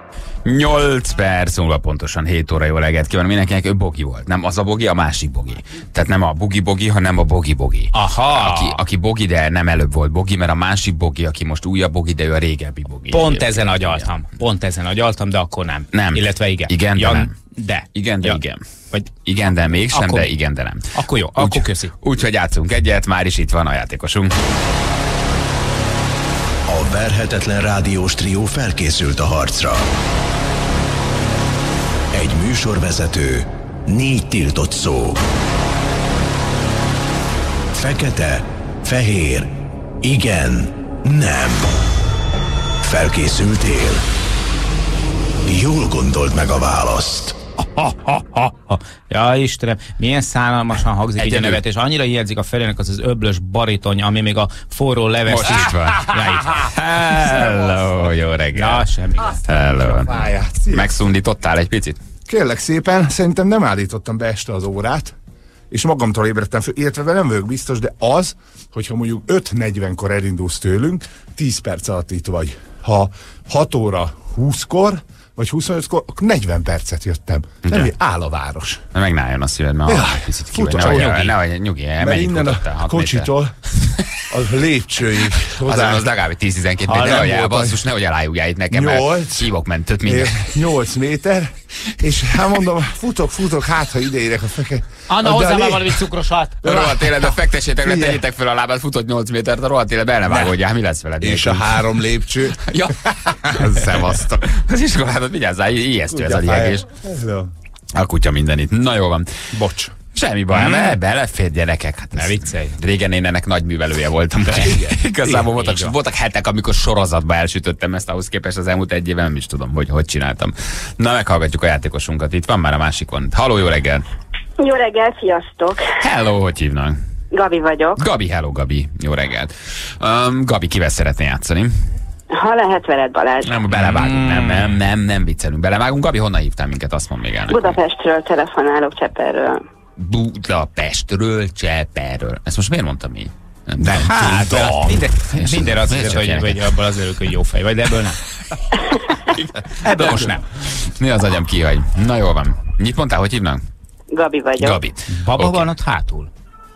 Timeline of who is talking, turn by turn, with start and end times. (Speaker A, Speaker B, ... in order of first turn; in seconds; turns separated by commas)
Speaker A: 0.4-14.0, Speaker B: 7.9-8.8, Speaker B: 13.1-18.4, Speaker A: 15.9-17.3, Speaker A: 17.9-18.6, Speaker A: 19.2-24.3, Speaker B: 19.9-20.3, Speaker B: 20.9-21.9, Speaker C: 26.7-29.8, Speaker C: 32.1-35.2, Speaker C: 37.8-41.7, Speaker C: 42.8-44.0, Speaker C: 45.5-47.4, Speaker B: 47.8-56.7, Speaker A: 51.2-51.6, Speaker A: 55.3-58.9, Speaker B: 58.5-59.4, Speaker A: 59.4-62.0, Speaker D: 60.1-60.9, Speaker D: 62.3-65.1, Speaker D: 65.7-78.8, Speaker A: 77.7-77.9, Speaker A: 78.9-83.3, Speaker D: 79.9-81.3, Speaker B: 80.9-81.2, Speaker D: 82.0-83.5, Speaker D: 84.3-86.0, Speaker A: 85.4-90.6, Speaker D: 86.9-87.8, Speaker D: 88.7-89.5, Speaker D: 90.0-96.0, Speaker B: 95.1-96.6, Speaker D: 96.7-97.2, Speaker A: 96.7-101.9, Speaker D: 97.8-98.2, Speaker D: 101.2-102.8, Speaker A: 102.6-106.9, Speaker D: 103.4-104.1, Speaker D: 106.1-107.5, Speaker A: 108.0-109.5, Speaker B: 109.6-109.9, Speaker A: 110.1-124.0, Speaker B: 112.2-112.8, Speaker B: 114.5-115.9, Speaker E: 124.6-125.8, Speaker A: 126.0-127.0, Speaker E: 127.3-128.0, Speaker A: 128.0-131.7, Speaker E: 132.3-133.6, Speaker A: 133.4-137.8, Speaker B: 134.1-134.6, Speaker E: 137.5-139.6, Speaker A: 140.0-144.7, Speaker D: 143.8-145.0, Speaker B: 144.0-148.2, Speaker A: 145.3-146.7, Speaker A: 149.3-153.6, Speaker B: 149.8-150.4, Speaker E: 154.1-154.8, Speaker A: 154.6-155.7, Speaker B: 155.1-156.3